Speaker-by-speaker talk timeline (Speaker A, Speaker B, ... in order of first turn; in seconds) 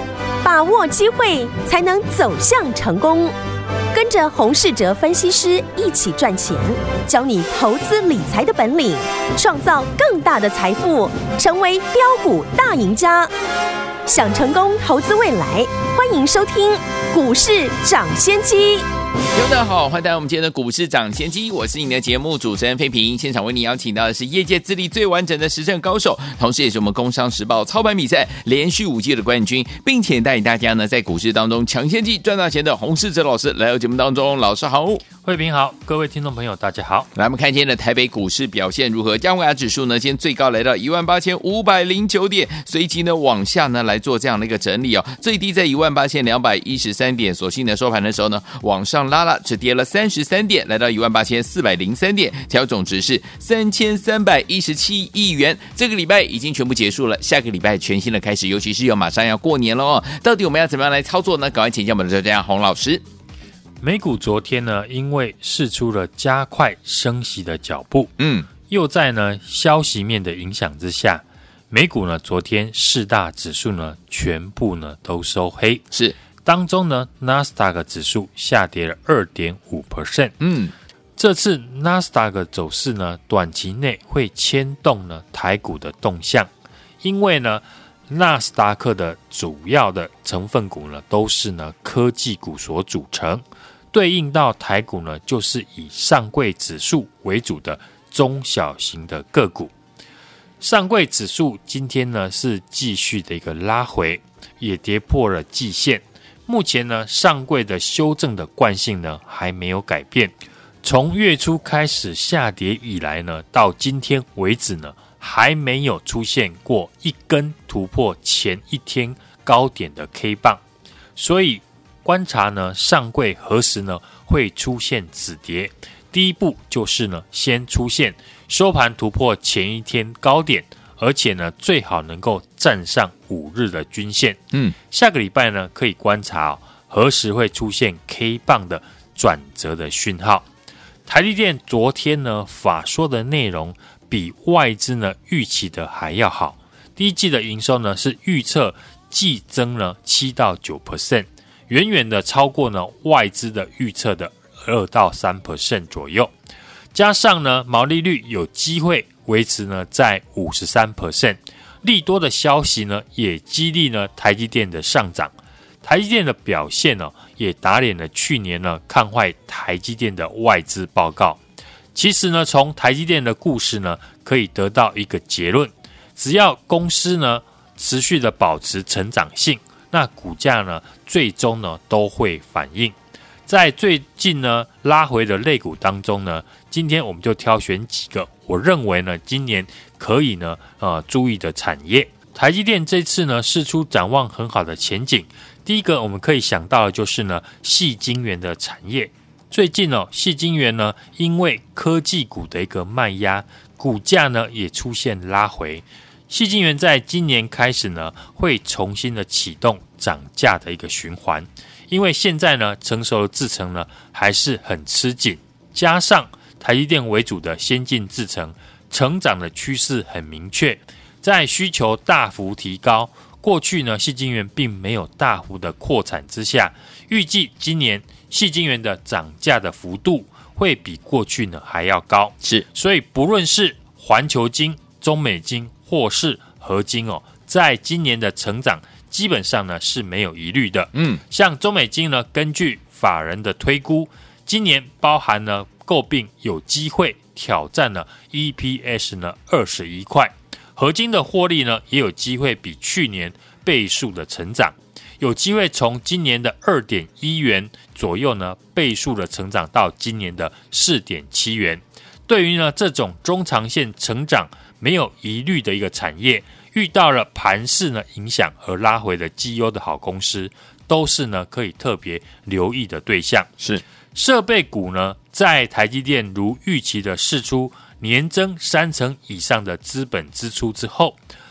Speaker A: 0.4-3.3, 3.9-13.3, 14.1-18.9
Speaker B: 19.3-35.0, 37.1-63.0, 68.2-68.5, 80.4-80.7, 240.9-241.2
Speaker C: 35.2-37.1, 63.8-68.1, 68.7-75.9, 76.4-80.3, 81.2-86.5, 87.0-99.7, 100.6-120.6, 121.2-134.4, 134.9-140.5, 141.1-156.3, 156.9-165.3, 165.8-171.4, 171.9-182.9, 183.5-273.5, 274.1-281.2